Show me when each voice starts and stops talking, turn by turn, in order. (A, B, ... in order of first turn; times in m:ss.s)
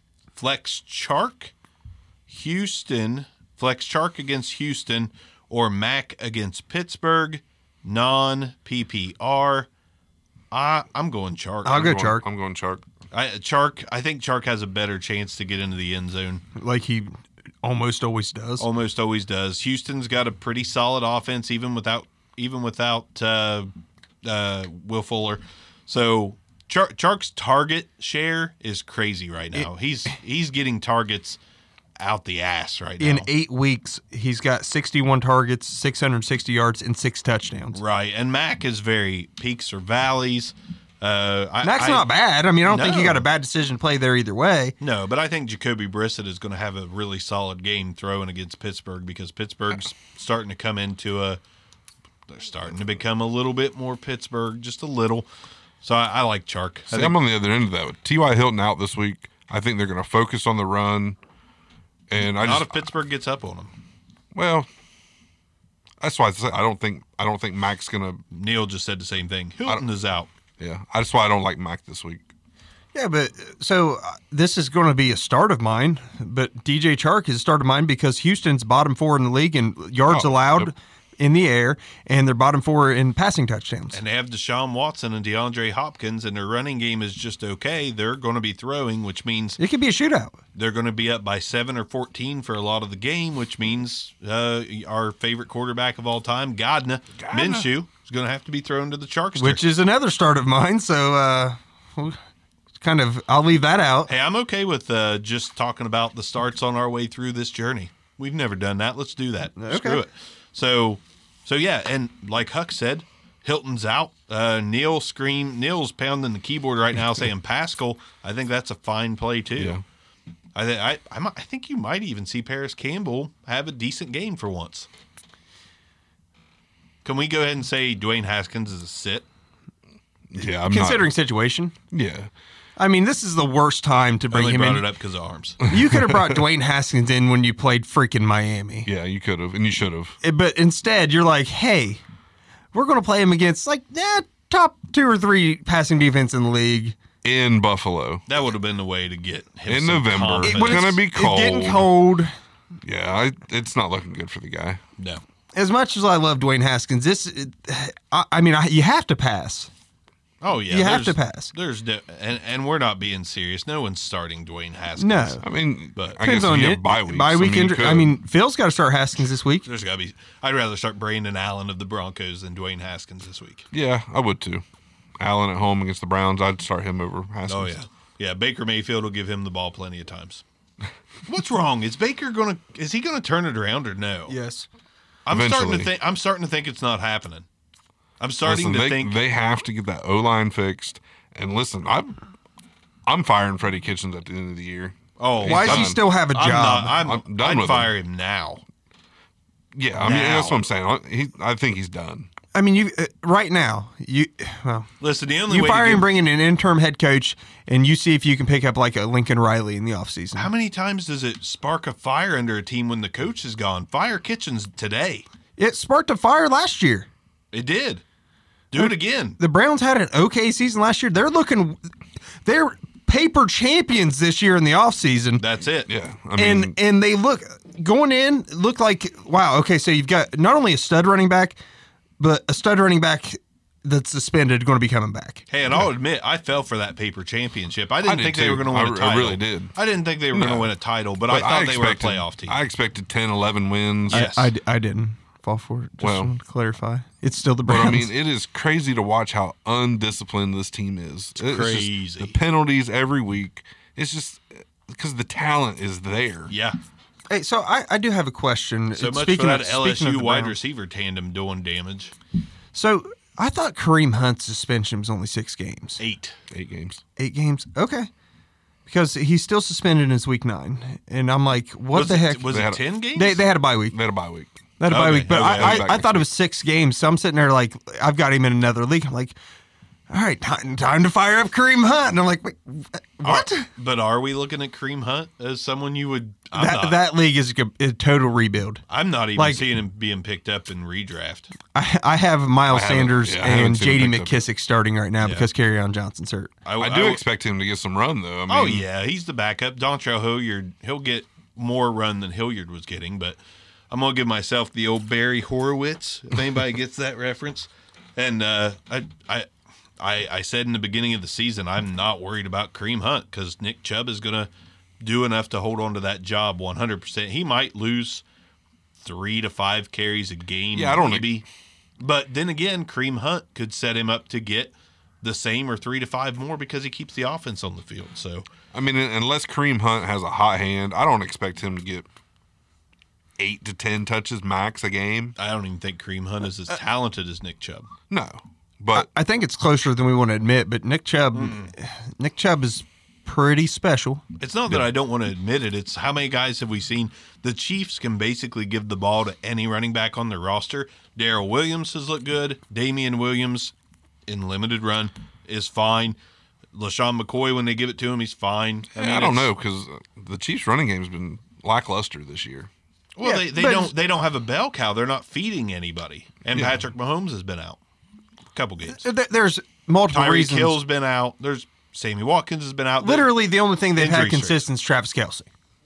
0:00.4-0:01.5 A
0:02.3-0:09.7 A
0:10.5-0:11.9 A
0:11.6-0:12.2 B
0:11.7-0:12.8 C
0:13.1-0:16.4 A
0:16.6-0:18.7 B
0:18.6-0:23.7 A
0:24.2-0:31.4 A
0:32.0-0:33.3 A
0:33.0-0:37.8 B
0:37.7-0:42.1 A
0:41.6-0:44.8 B
0:42.6-0:43.2 A
0:44.8-0:51.4 A
0:52.3-0:55.3 A
0:55.8-0:57.2 A
0:56.9-1:01.2 C
1:02.1-1:02.8 C
1:02.4-1:03.7 A
1:04.3-1:04.7 C
1:06.0-1:08.2 C
1:08.3-1:10.3 A
1:10.6-1:12.3 C
1:12.9-1:24.0 B
1:20.1-1:20.7 C
1:23.9-1:29.6 A
1:29.6-1:30.4 B
1:30.6-1:39.6 A
1:37.2-1:37.7 C
1:39.4-1:42.2 B
1:42.8-1:44.1 B
1:44.1-1:59.8 A
1:49.6-1:50.0 B
2:00.6-2:04.9 A
2:07.0-2:09.3 A
2:10.3-2:11.1 C
2:10.6-2:11.8 B
2:11.9-2:12.3 C
2:12.8-2:14.9 B
2:14.3-2:15.6 A
2:15.6-2:16.4 C
2:15.7-2:18.9 B
2:18.9-2:20.2 C
2:20.2-2:22.0 B
2:22.7-2:27.0 B
2:27.2-2:28.2 C
2:28.3-2:30.9 A
2:29.7-2:31.9 C
2:30.4-2:32.3 B
2:32.8-2:34.8 C
2:35.5-2:39.7 B
2:40.4-2:45.4 A
2:40.7-2:41.5 B
2:45.0-2:45.4 B
2:45.4-2:48.1 C
2:46.2-2:49.7 B
2:49.6-2:53.7 A
2:53.7-2:54.6 C
2:55.2-2:57.8 C
2:57.5-3:00.4 A
3:01.3-3:04.4 A
3:04.3-3:04.7 B
3:05.3-3:07.4 A
3:05.3-3:05.9 C
3:08.2-3:09.2 A
3:08.4-3:12.2 C
3:13.1-3:16.0 C
3:15.2-3:18.6 A
3:15.4-3:17.0 B
3:17.0-3:17.9 C
3:19.7-3:22.3 C
3:20.0-3:20.6 A
3:22.5-3:24.9 B
3:25.0-3:26.1 A
3:25.5-3:30.5 B
3:30.4-3:35.3 A
3:35.6-3:37.1 B
3:37.5-3:38.0 A
3:38.7-3:39.4 A
3:38.8-3:41.8 B
3:42.4-3:45.4 B
3:45.4-3:45.9 A
3:45.9-3:46.8 C
3:46.4-3:51.6 B
3:52.2-3:55.4 B
3:55.5-4:02.6 A
3:58.0-3:59.7 C
4:00.3-4:00.7 C
4:01.3-4:04.3 C
4:04.1-4:08.1 B
4:04.1-4:04.5 A
4:06.0-4:06.3 C
4:07.7-4:16.5 C
4:11.4-4:12.4 A
4:16.5-4:16.8 A
4:17.3-4:20.6 B
4:19.0-4:22.1 A
4:22.7-4:26.0 B
4:26.0-4:26.4 A
4:26.5-4:27.0 C
4:27.2-4:28.1 B
4:28.9-4:32.5 B
4:31.9-4:33.4 A
4:32.5-4:32.8 C
4:33.2-4:34.0 B
4:33.9-4:36.2 C
4:34.8-4:39.4 B
4:34.9-4:35.9 A
4:40.1-4:43.7 B
4:43.2-4:47.0 A
4:46.6-4:48.8 B
4:48.9-4:51.5 A
4:49.4-4:49.7 B
4:51.7-4:56.5 B
4:52.7-4:54.4 C
4:55.2-4:55.5 A
4:56.6-4:57.2 A
4:56.8-4:58.8 C
4:58.5-5:03.4 A
5:03.9-5:09.5 A
5:10.0-5:14.5 A
5:15.0-5:18.2 A
5:19.0-5:21.4 A
5:20.8-5:21.4 C
5:22.0-5:28.5 A
5:28.7-5:32.1 C
5:33.4-5:35.4 C
5:35.4-5:37.9 A
5:38.1-5:39.1 C
5:38.9-5:44.2 B
5:41.3-5:41.7 A
5:44.4-5:53.7 A
5:54.3-5:56.2 A
5:56.7-5:59.5 A
5:59.0-6:02.7 C
6:03.2-6:07.8 A
6:03.2-6:03.9 B
6:08.5-6:09.1 A
6:08.9-6:10.8 B
6:10.1-6:13.3 A
6:13.0-6:15.5 B
6:14.0-6:14.6 A